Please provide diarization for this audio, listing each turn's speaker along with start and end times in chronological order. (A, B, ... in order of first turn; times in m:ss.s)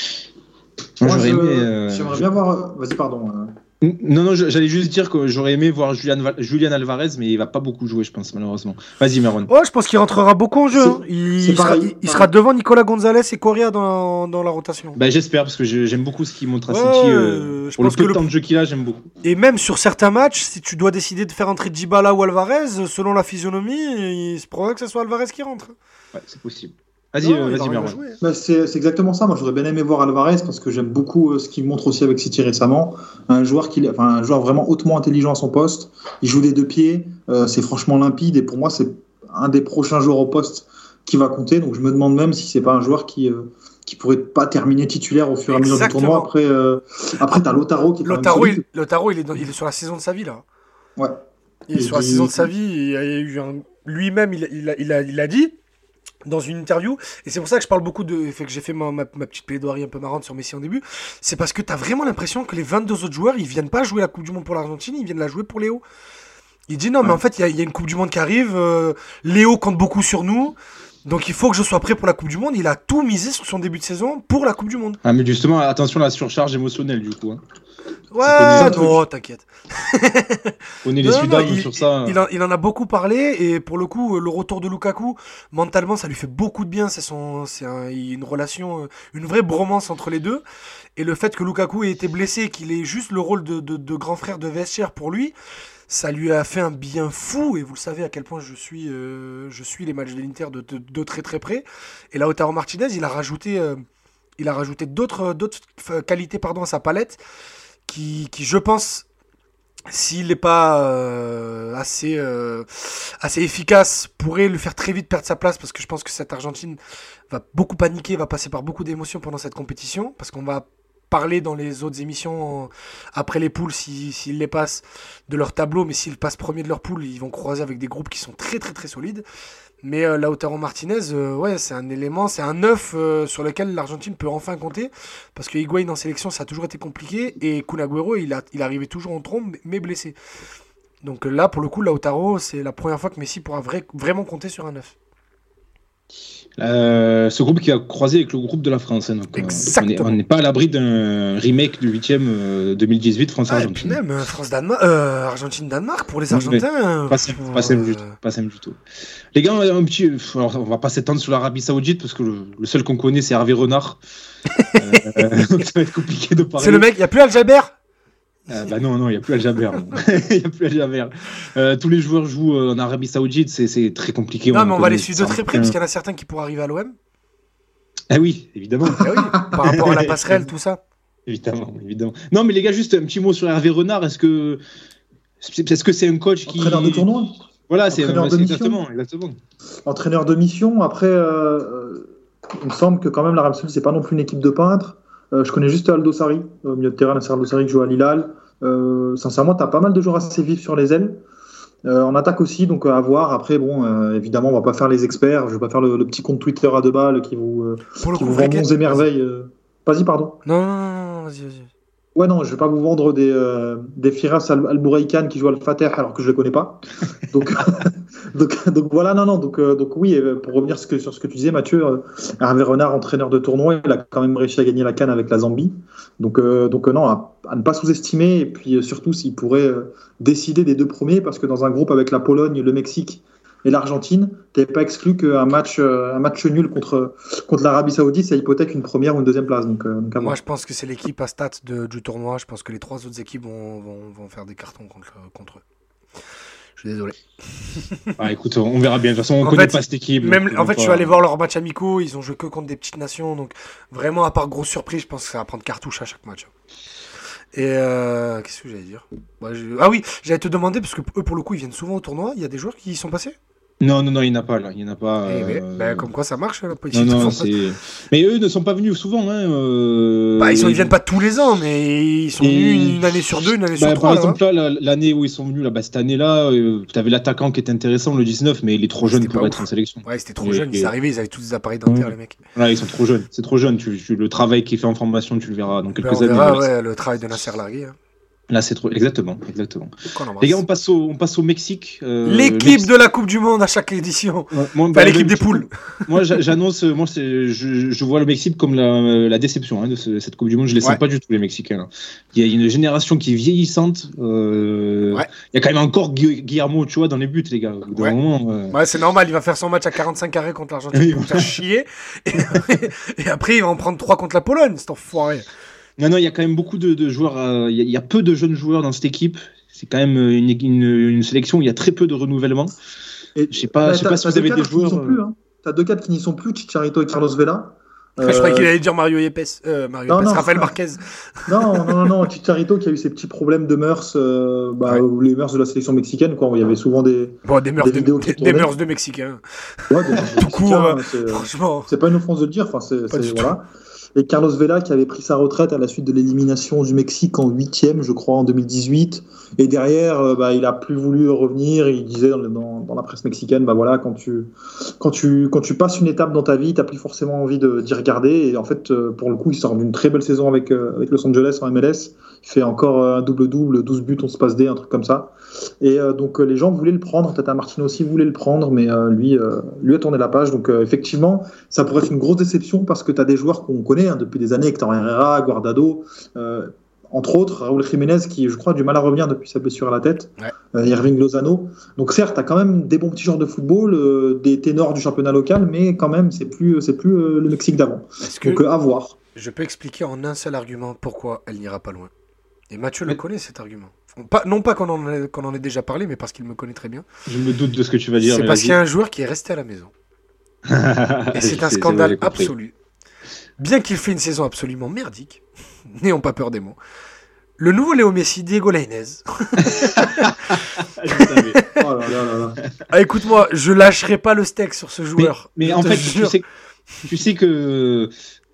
0:01.0-0:02.3 A
0:01.0-0:03.5 B
0:03.8-0:09.5 A
0:09.5-0:15.0 C
0:10.7-0:12.3 B
0:15.0-0:19.1 A
0:16.7-0:18.2 C
0:19.2-0:25.7 C
0:26.1-0:28.0 A
0:27.2-0:28.2 C
0:28.2-0:48.6 B
0:45.5-0:46.3 C
0:48.0-0:50.4 C
0:51.7-0:55.5 C
0:51.7-0:52.5 B
0:56.2-1:05.8 C
1:06.7-1:15.0 C
1:15.0-1:17.4 A
1:18.1-1:30.4 C
1:18.2-1:18.9 A
1:18.5-1:19.0 B
1:20.8-1:22.2 A
1:31.0-1:35.3 C
1:35.9-1:43.8 C
1:44.4-1:47.2 C
1:47.9-1:49.0 C
1:49.9-1:56.8 C
1:57.3-2:09.2 C
2:09.8-2:20.1 C
2:21.0-2:24.9 C
2:26.6-2:34.0 A
2:29.3-2:30.2 C
2:33.5-2:38.1 C
2:36.3-2:38.8 A
2:39.3-2:44.0 A
2:44.6-2:45.2 C
2:44.8-2:46.8 A
2:46.6-2:47.7 C
2:48.5-2:55.8 A
2:54.5-2:56.9 C
2:58.1-3:00.5 A
2:58.9-3:00.8 C
3:01.3-3:04.6 A
3:05.4-3:07.1 A
3:06.5-3:08.8 B
3:07.7-3:09.4 A
3:09.8-3:12.1 B
3:12.6-3:21.2 B
3:21.8-3:30.4 B
3:28.0-3:29.0 C
3:30.4-3:31.7 C
3:32.1-4:00.4 B
4:00.2-4:05.6 C
4:06.8-4:08.1 C
4:08.2-4:11.2 A
4:09.4-4:16.5 C
4:17.5-4:23.4 C
4:23.8-4:26.0 A
4:25.3-4:27.5 C
4:26.9-4:30.9 A
4:30.4-4:34.4 C
4:32.4-4:40.9 A
4:39.0-4:42.4 C
4:41.9-4:46.6 A
4:46.0-4:47.9 C
4:48.5-4:52.9 A
4:50.1-4:50.6 C
4:52.2-4:56.3 C
4:54.5-5:08.8 A
5:08.7-5:15.4 C
5:10.9-5:11.6 A
5:16.0-5:22.7 A
5:23.4-5:28.7 B
5:23.5-5:25.2 A
5:28.2-5:32.1 C
5:30.1-5:30.7 B
5:31.5-5:38.7 B
5:37.4-5:39.4 C
5:39.9-6:29.2 B
5:40.2-5:41.9 C
5:43.1-5:43.6 C
6:28.2-6:28.6 C
6:29.4-6:32.1 C
6:32.7-6:37.0 C
6:37.3-6:38.8 A
6:38.2-6:39.9 C
6:40.7-6:42.5 A
6:41.3-6:42.7 C
6:43.6-6:45.4 C
6:45.9-6:46.8 C
6:47.6-6:50.2 C
6:49.6-6:51.6 A
6:51.2-6:51.6 C
6:51.8-6:52.6 B
6:52.9-6:56.4 C
6:55.2-6:56.4 A
6:57.1-6:58.1 A